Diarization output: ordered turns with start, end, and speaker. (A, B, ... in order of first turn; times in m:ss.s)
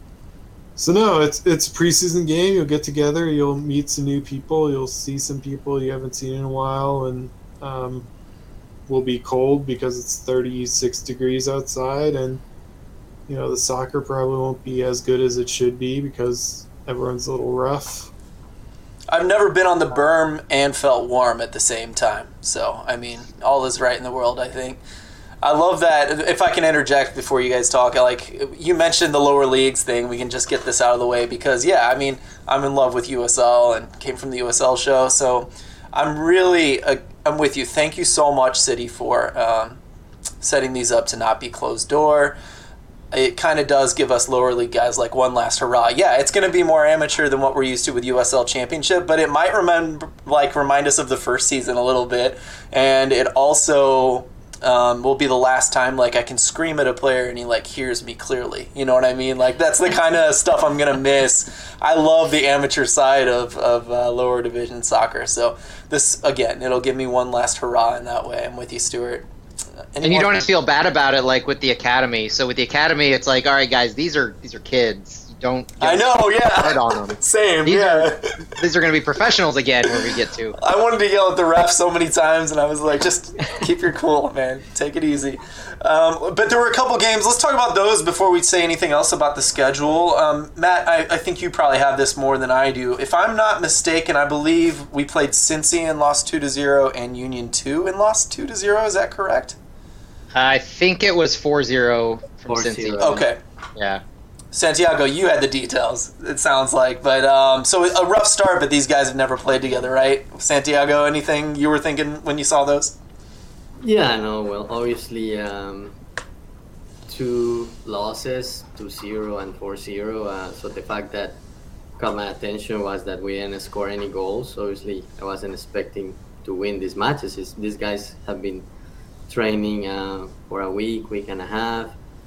0:00.8-0:08.1 A
0:08.9-0:12.4 A
0:13.3-0:18.1 A
0:19.1-0:24.8 B
0:25.4-0:39.8 B
0:40.4-0:42.4 B
0:43.1-1:09.2 B
1:09.9-1:10.5 B
1:10.0-1:20.6 C
1:15.8-1:18.5 B
1:20.6-1:39.6 B
1:40.3-1:43.2 C
1:42.5-1:43.2 D
1:43.0-1:43.4 B
1:43.8-1:44.0 C
1:44.5-1:52.9 B
1:53.8-1:56.0 D
1:57.1-2:01.4 D
2:02.0-2:08.7 D
2:09.3-2:12.0 D